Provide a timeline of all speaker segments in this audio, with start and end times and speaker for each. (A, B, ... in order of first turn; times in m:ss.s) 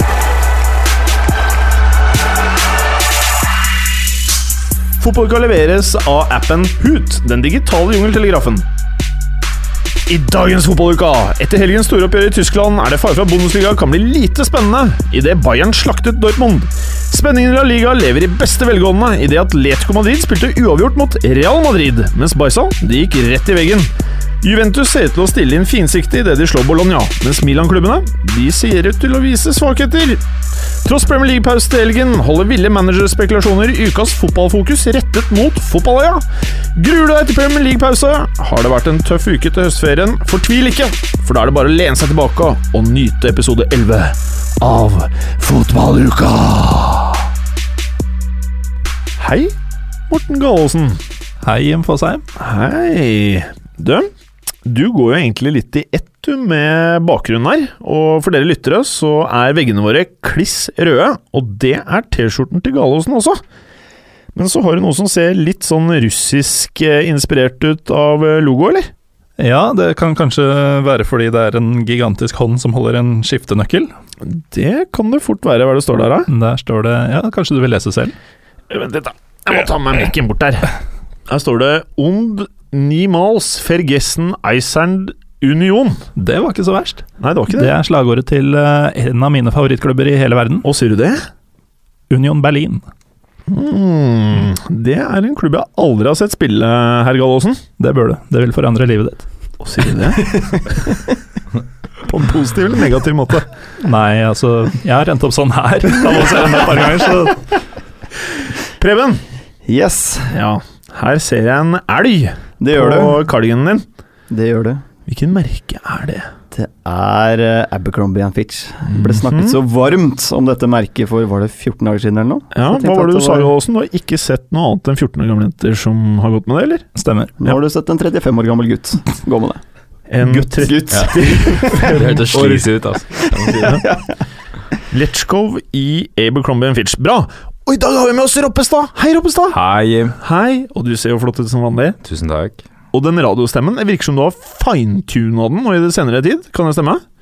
0:05.0-0:08.6 A
0:10.1-0:23.9 A
0:24.4-0:30.2 A
0:30.8-0:36.2 A
0:36.7-0:47.3 A
0:49.2-0:49.5 A
0:50.1-0:51.0 A
0:51.4-0:52.2 B
0:52.4-0:54.1 A
0:54.6-1:03.4 A
1:04.3-1:08.9 A
1:09.4-1:13.9 B
1:14.2-1:16.3 A
1:16.3-1:18.1 B
1:18.7-1:20.7 A
1:21.3-1:26.0 A
1:26.2-1:30.6 B
1:27.2-1:27.7 A
1:30.6-1:31.2 A
1:32.1-1:32.8 B
1:33.5-1:37.6 A
1:37.8-1:39.2 B
1:39.6-1:40.9 A
1:42.0-1:43.5 A
1:43.8-1:47.4 B
1:48.8-1:49.2 A
1:49.6-1:50.3 C
1:50.3-1:53.8 A
1:52.6-1:53.2 C
1:54.3-1:54.8 C
1:55.1-1:56.3 A
1:56.5-2:03.5 C
1:58.9-1:59.6 A
2:02.5-2:06.9 A
2:07.0-2:07.3 B
2:07.4-2:09.6 C
2:10.1-2:12.7 A
2:10.3-2:11.8 C
2:11.8-2:13.9 D
2:13.4-2:14.0 C
2:14.9-2:19.6 A
2:19.5-2:20.2 D
2:20.2-2:22.0 A
2:22.0-2:22.6 D
2:22.9-2:27.0 A